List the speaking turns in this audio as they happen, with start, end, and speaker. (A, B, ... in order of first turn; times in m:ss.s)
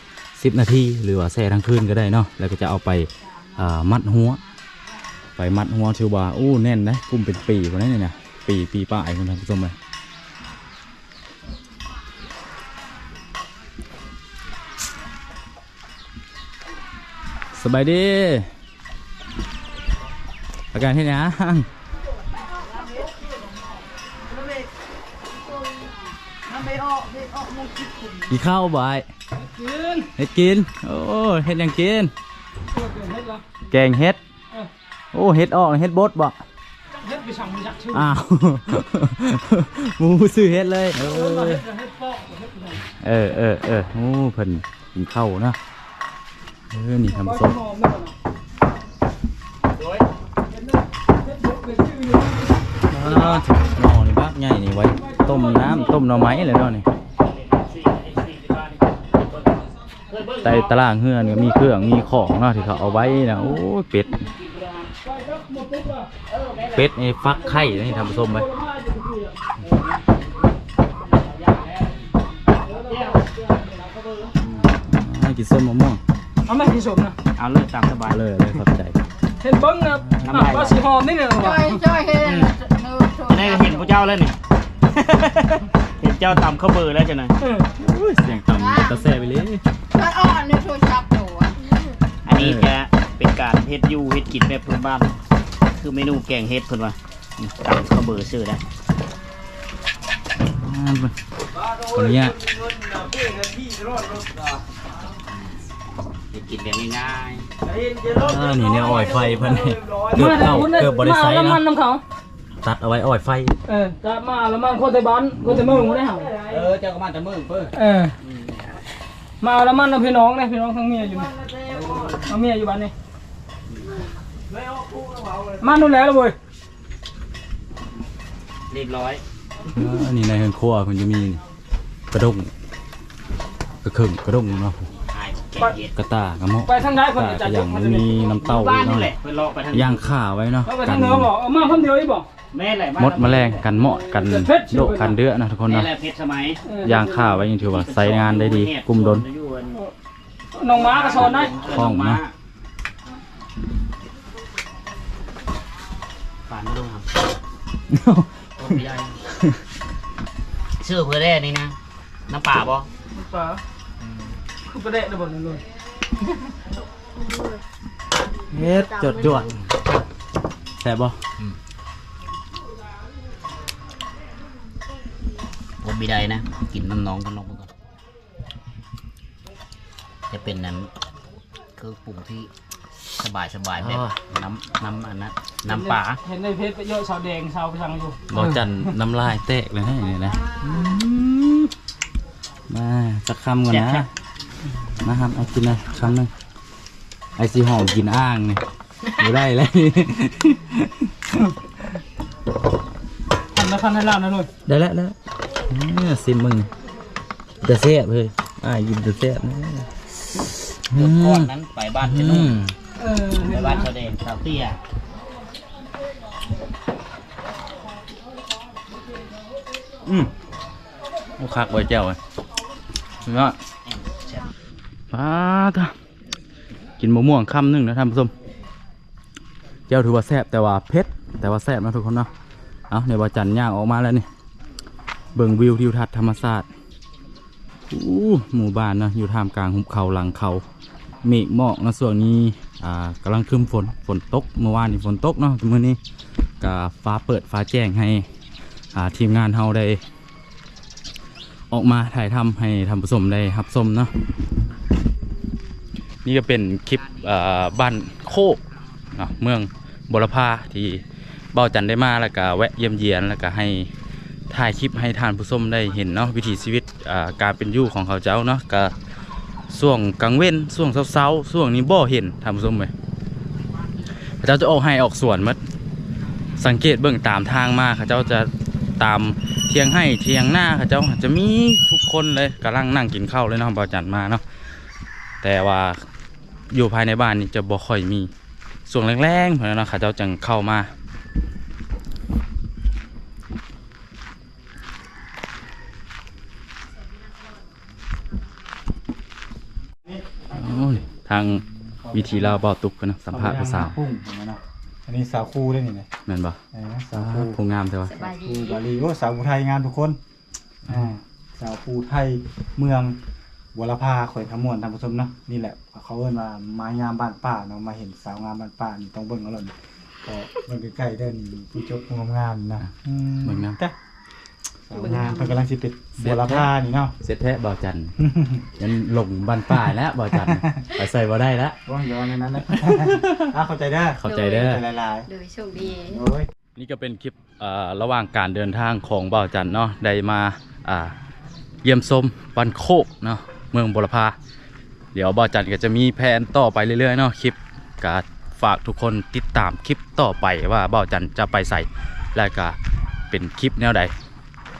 0:00.3-0:04.4 A
0:05.4-0:09.8 A
0:17.5-0:18.5 A
0:20.7-0:21.7 A
0:26.6-0:27.9 B
0:28.3-0:29.1 A
0:29.4-0:30.1 B
0:30.2-0:32.1 A
0:32.7-0:33.4 B
0:33.7-0:34.2 A
0:35.1-0:36.4 A
0:37.0-0:38.1 B
0:37.9-0:41.7 A
0:41.0-0:42.8 B
0:43.0-0:45.6 A
0:46.7-0:47.6 A
0:47.1-0:48.1 B
0:51.3-0:52.5 B
0:52.9-0:56.8 A
0:55.1-0:56.3 B
0:57.4-0:58.8 C
1:00.1-1:00.7 C
1:00.4-1:04.2 A
1:04.3-1:04.9 C
1:05.1-1:06.1 B
1:06.3-1:06.7 C
1:06.7-1:08.5 A
1:08.2-1:09.3 B
1:11.1-1:12.0 C
1:12.8-1:13.2 C
1:14.8-1:16.0 A
1:16.4-1:17.2 B
1:17.4-1:18.2 C
1:18.1-1:19.0 A
1:19.4-1:21.8 B
1:20.2-1:21.0 C
1:21.4-1:24.0 D
1:21.9-1:22.5 C
1:23.3-1:24.4 C
1:24.9-1:27.4 C
1:27.4-1:27.7 B
1:27.8-1:29.6 A
1:28.5-1:29.0 D
1:29.9-1:31.9 D
1:32.2-1:35.2 C
1:32.3-1:32.7 A
1:35.7-1:38.6 C
1:40.4-1:41.1 A
1:41.8-1:42.4 A
1:42.8-1:44.4 C
1:46.3-1:50.7 C
1:48.1-1:51.6 A
1:50.1-1:52.0 B
1:52.6-1:53.6 A
1:53.7-1:56.4 B
1:55.4-1:55.9 A
1:56.2-1:58.6 C
1:57.7-1:58.1 B
1:59.4-2:01.3 B
2:01.5-2:02.2 C
2:02.2-2:02.9 B
2:05.0-2:05.5 C
2:05.6-2:06.4 B
2:08.7-2:09.2 C
2:09.7-2:11.4 A
2:12.1-2:12.5 A
2:13.8-2:14.9 A
2:15.1-2:15.9 C
2:15.9-2:19.1 A
2:16.6-2:18.2 B
2:18.4-2:20.1 C
2:19.7-2:21.3 A
2:20.6-2:22.3 B
2:22.5-2:23.6 C
2:23.0-2:25.9 A
2:24.1-2:25.1 B
2:25.6-2:26.6 C
2:26.6-2:27.5 B
2:26.8-2:29.2 A
2:27.6-2:29.8 C
2:30.5-2:31.5 B
2:30.7-2:32.3 C
2:31.6-2:32.2 A
2:36.5-2:37.2 C
2:37.9-2:38.7 A
2:38.6-2:39.2 C
2:40.8-2:41.8 C
2:42.3-2:42.9 C
2:43.2-2:43.6 B
2:44.6-2:45.6 B
2:47.2-2:47.6 D
2:48.5-2:49.6 A
2:48.8-2:49.4 D
2:50.8-2:51.2 A
2:55.8-2:57.7 C
3:00.3-3:00.9 C
3:01.8-3:02.5 C
3:03.2-3:06.2 C
3:03.8-3:04.2 A
3:05.7-3:08.4 B
3:08.3-3:11.7 A
3:12.7-3:14.1 A
3:13.7-3:14.0 C
3:15.0-3:16.3 A
3:17.4-3:21.5 A
3:23.5-3:24.5 B
3:24.6-3:26.7 A
3:27.6-3:31.5 A
3:30.9-3:32.6 C
3:32.0-3:32.7 A
3:33.0-3:33.9 B
3:33.3-3:34.8 C
3:40.0-3:40.3 A
3:41.4-3:42.2 A
3:43.2-3:43.6 A
3:43.9-3:44.4 C
3:45.1-3:45.9 A
3:47.0-3:48.3 A
3:49.9-3:52.3 A
3:52.9-3:54.2 A
3:55.3-3:56.7 A
3:57.9-4:00.6 A
4:01.2-4:06.0 A
4:06.6-4:08.2 A
4:08.9-4:10.0 A
4:11.7-4:14.1 A
4:16.2-4:18.6 A
4:19.1-4:23.9 A
4:24.5-4:28.9 A
4:29.7-4:32.9 A
4:34.4-4:35.6 A
4:36.6-4:44.4 A
4:45.4-4:46.0 A
4:46.7-4:48.3 A
4:48.9-4:50.9 A
5:00.5-5:04.0 A
5:02.0-5:02.6 E
5:03.3-5:06.1 E
5:06.2-5:06.6 A
5:06.7-5:10.2 E
5:07.1-5:08.2 A
5:08.1-5:08.8 D
5:10.9-5:13.2 E
5:13.7-5:19.7 E
5:20.2-5:23.9 E
5:23.4-5:23.8 A
5:24.9-5:27.1 E
5:25.0-5:25.6 D
5:26.2-5:28.2 A
5:28.2-5:28.6 E
5:28.8-5:31.8 A
5:30.4-5:30.7 E
5:31.8-5:35.3 E
5:32.6-5:33.5 A
5:34.2-5:34.8 A
5:34.2-5:34.7 D
5:35.3-5:36.2 D
5:36.0-5:36.5 E
5:36.8-5:41.1 A
5:41.8-5:44.3 A
5:45.1-5:52.8 A
5:53.3-5:54.1 A